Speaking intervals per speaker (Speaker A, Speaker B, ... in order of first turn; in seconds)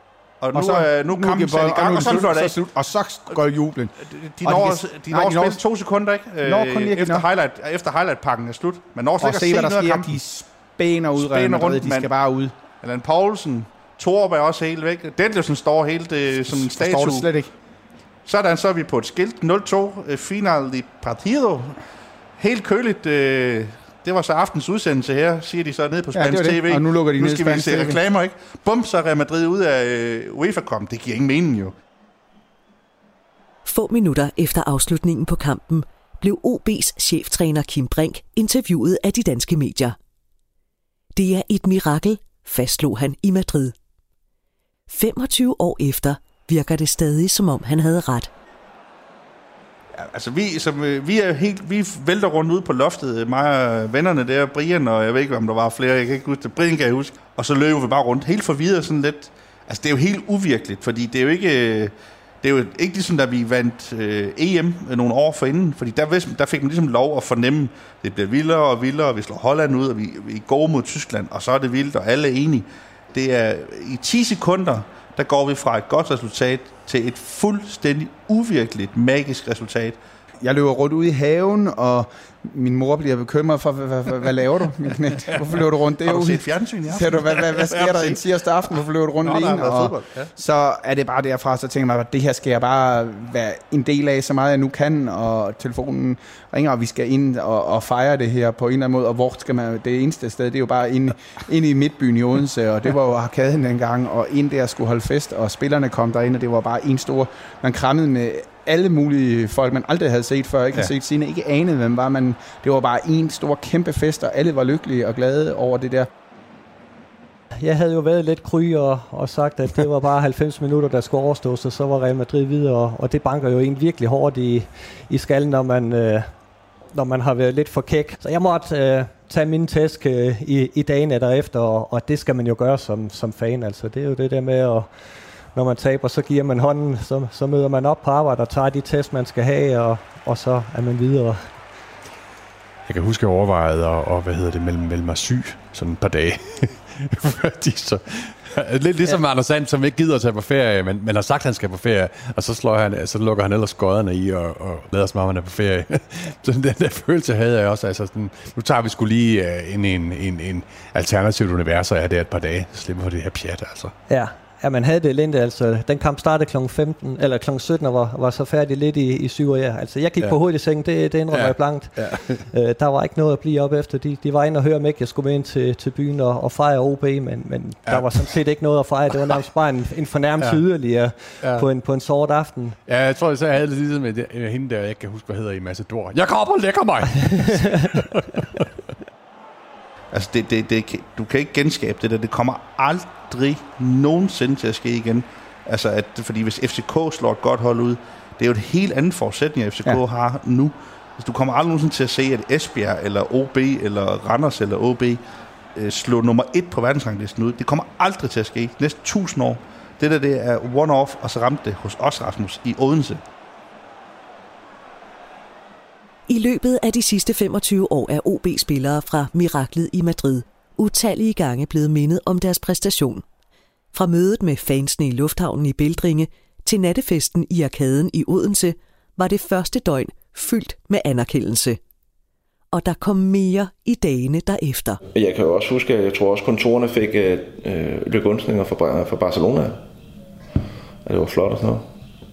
Speaker A: 0.4-2.5, 4.1-10.1, 11.2-12.1, 12.8-17.2, 18.2-21.8, 22.4-31.7, 50.0-80.0, 86.0-88.2, 89.2-90.3, 190.1-205.2, 205.7-213.2
Speaker B: 0.5-5.6, 6.4-7.2, 9.2-12.5, 16.4-17.5, 26.1-28.0, 80.4-116.1
Speaker C: 33.6-40.0, 41.1-43.7, 44.9-48.3, 216.3-223.2, 223.9-231.8, 232.7-235.0
Speaker D: 117.6-126.3, 126.9-141.4, 164.1-182.8
Speaker E: 142.8-163.9, 171.3-172.5, 177.8-178.3, 181.4-181.7, 182.8-188.6
Speaker F: 235.1-239.8, 241.0-241.8